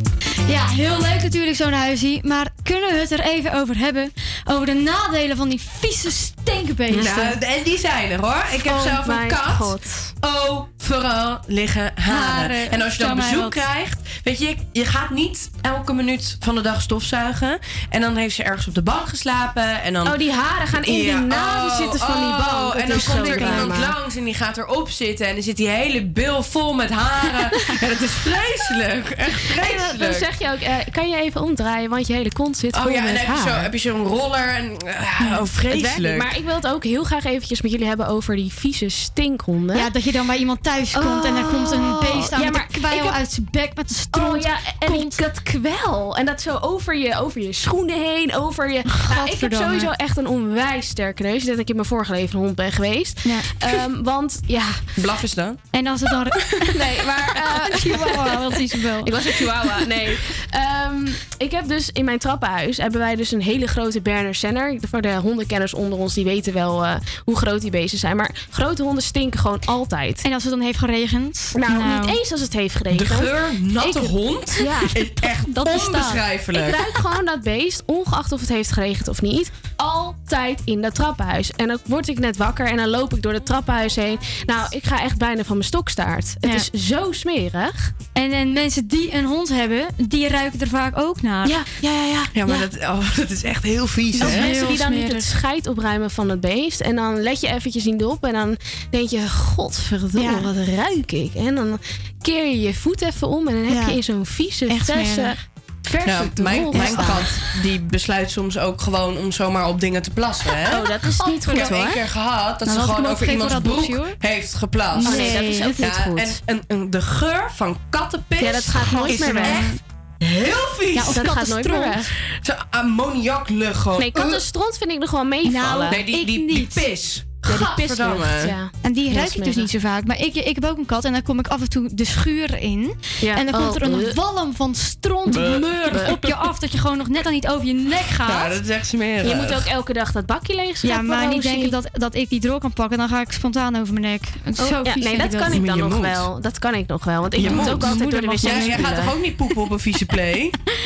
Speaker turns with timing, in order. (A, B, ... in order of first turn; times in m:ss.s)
0:00.5-0:07.4 A
0:06.9-0:20.2 B
0:08.7-0:10.1 C
0:12.1-0:13.6 A
0:20.0-0:24.0 C
0:20.7-0:30.3 B
0:22.9-0:23.8 A
0:29.5-0:33.7 C
0:32.7-0:36.3 B
0:35.6-0:39.9 C
0:39.7-0:45.2 A
0:40.9-0:43.2 C
0:44.1-0:54.9 C
0:48.9-0:49.9 A
0:53.2-0:53.5 A
0:55.0-0:55.6 B
0:55.7-0:59.4 A
0:56.7-0:57.5 B
0:57.4-1:10.2 C
1:10.2-1:12.2 A
1:11.5-1:14.9 C
1:12.9-1:16.8 B
1:14.6-1:16.2 A
1:16.6-1:27.9 C
1:28.1-1:32.6 A
1:31.4-1:31.7 C
1:32.3-1:34.8 B
1:34.2-1:47.5 C
1:34.2-1:35.3 A
1:40.2-1:40.5 A
1:43.7-1:45.3 A
1:46.0-2:01.4 B
1:46.7-1:47.3 A
1:50.6-1:52.0 C
1:51.2-1:52.0 A
1:52.6-1:54.2 A
1:54.9-1:55.9 A
1:55.0-1:56.4 C
1:58.4-1:59.7 C
1:58.8-1:59.8 A
2:00.9-2:02.0 A
2:01.0-2:02.1 C
2:02.2-2:04.4 B
2:04.0-2:06.1 C
2:05.4-2:06.9 A
2:05.6-2:08.5 B
2:07.5-2:09.7 C
2:08.8-2:18.6 A
2:13.2-2:14.2 C
2:15.3-2:16.4 B
2:18.1-2:19.7 B
2:19.2-2:21.7 C
2:20.8-2:25.6 A
2:24.6-2:29.2 C
2:25.5-2:26.3 B
2:27.4-2:30.5 B
2:27.4-2:29.0 A